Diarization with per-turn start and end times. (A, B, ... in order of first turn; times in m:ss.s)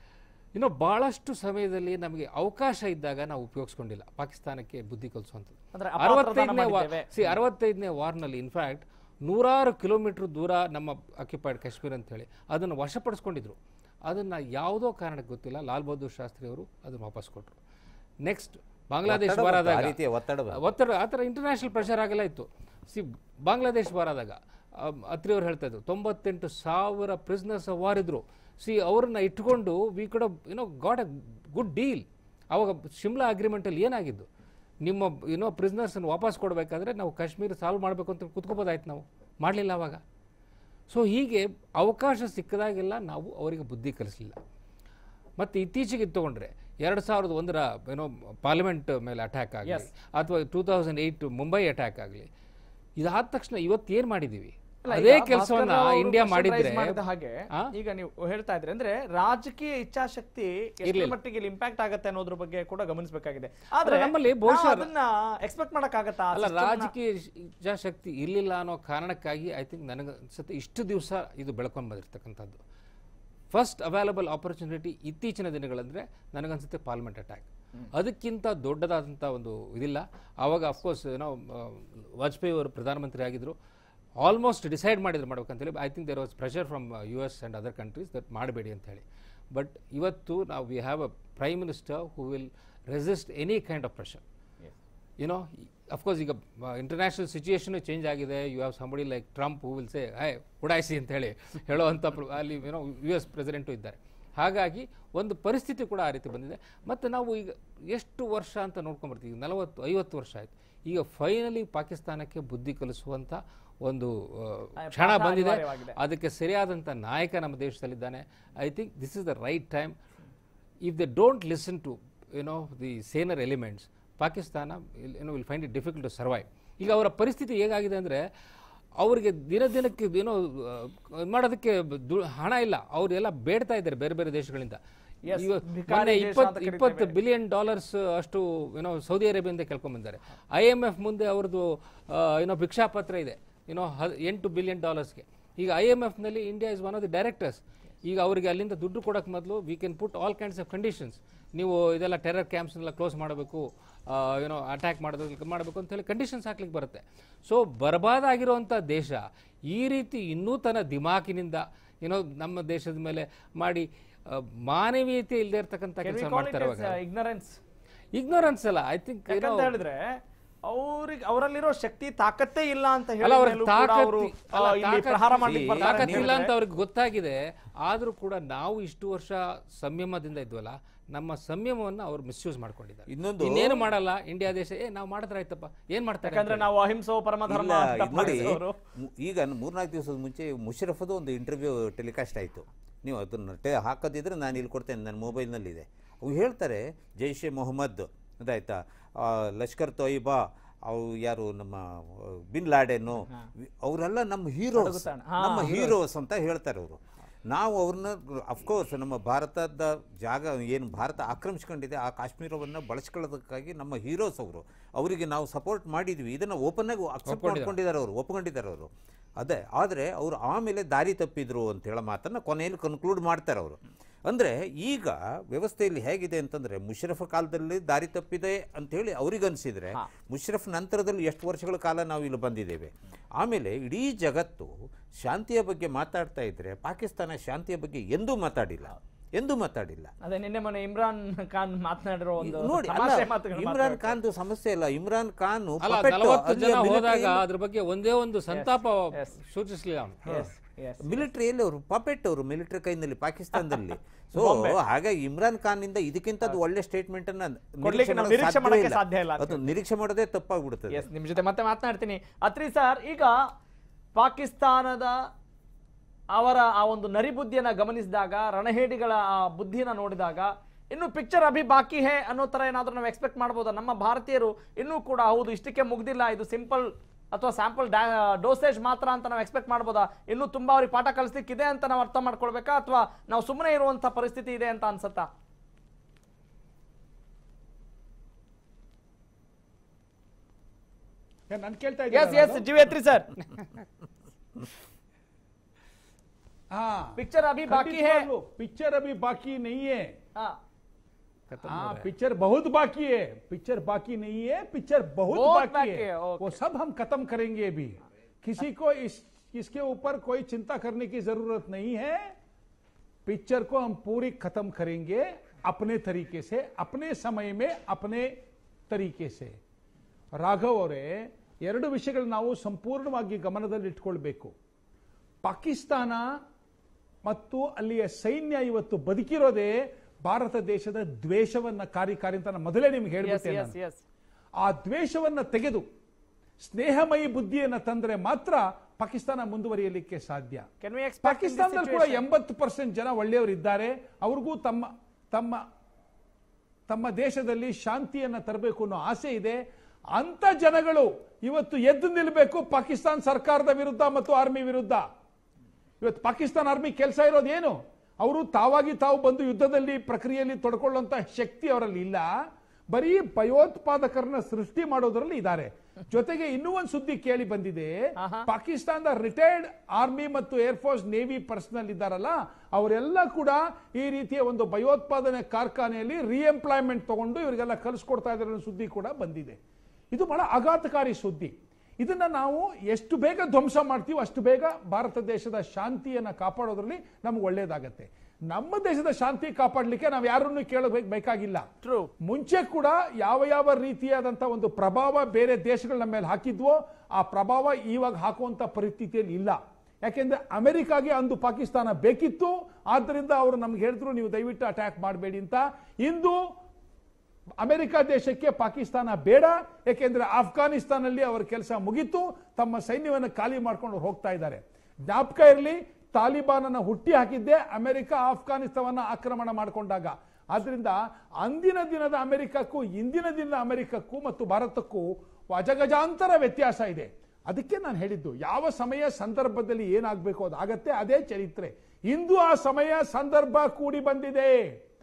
0:00.5-0:17.6 A
0:05.7-0:07.3 B
0:18.2-0:20.0 A
0:19.1-0:20.6 C
0:20.5-0:34.3 A
0:34.8-0:40.0 A
0:40.9-0:44.4 A
0:45.4-0:52.3 A
0:49.6-0:49.9 B
0:53.0-0:57.0 A
0:54.8-1:06.9 B
1:00.8-1:01.2 A
1:03.8-1:04.9 A
1:06.3-1:12.6 A
1:13.5-1:23.6 A
1:24.2-1:34.2 A
1:35.2-1:59.9 A
1:54.8-1:56.0 B
2:00.8-2:08.2 A
2:09.0-2:14.8 A
2:15.2-2:17.1 B
2:15.3-2:47.0 A
2:46.0-2:47.6 B
2:48.1-2:49.7 A
2:49.3-2:50.1 B
2:50.7-2:56.5 B
2:53.2-3:06.7 A
2:55.4-2:56.3 C
3:03.1-3:03.8 C
3:06.2-3:08.8 B
3:07.5-3:38.9 C
3:24.7-3:26.0 B
3:37.3-3:37.8 A
3:39.4-4:00.1 C
4:00.2-4:04.2 B
4:02.4-4:07.4 C
4:05.8-4:10.4 A
4:08.5-4:09.3 B
4:10.3-4:11.3 B
4:11.0-4:21.1 C
4:13.6-4:13.8 B
4:14.3-4:14.8 B
4:17.8-4:19.7 B
4:20.9-4:23.4 B
4:24.2-4:25.1 B
4:26.3-4:45.3 B
4:51.5-4:52.7 D
4:52.1-4:53.3 B
4:56.7-5:00.1 D
4:57.2-4:58.3 B
5:01.5-5:02.1 A
5:01.6-5:12.2 D
5:05.3-5:06.6 B
5:13.3-5:18.3 D
5:18.9-5:19.6 D
5:20.4-5:24.5 D
5:25.4-5:26.2 D
5:27.2-5:33.8 D
5:33.2-5:34.0 B
5:34.6-5:35.8 D
5:36.6-5:40.6 D
5:40.8-5:42.2 B
5:41.2-5:45.6 D
5:46.9-5:49.6 D
5:50.1-5:55.0 D
5:56.0-6:02.3 D
6:02.9-6:19.6 D
6:08.2-6:08.5 B
6:20.1-6:31.6 D
6:31.8-6:32.1 B
6:32.2-6:46.4 D
6:47.6-7:14.6 D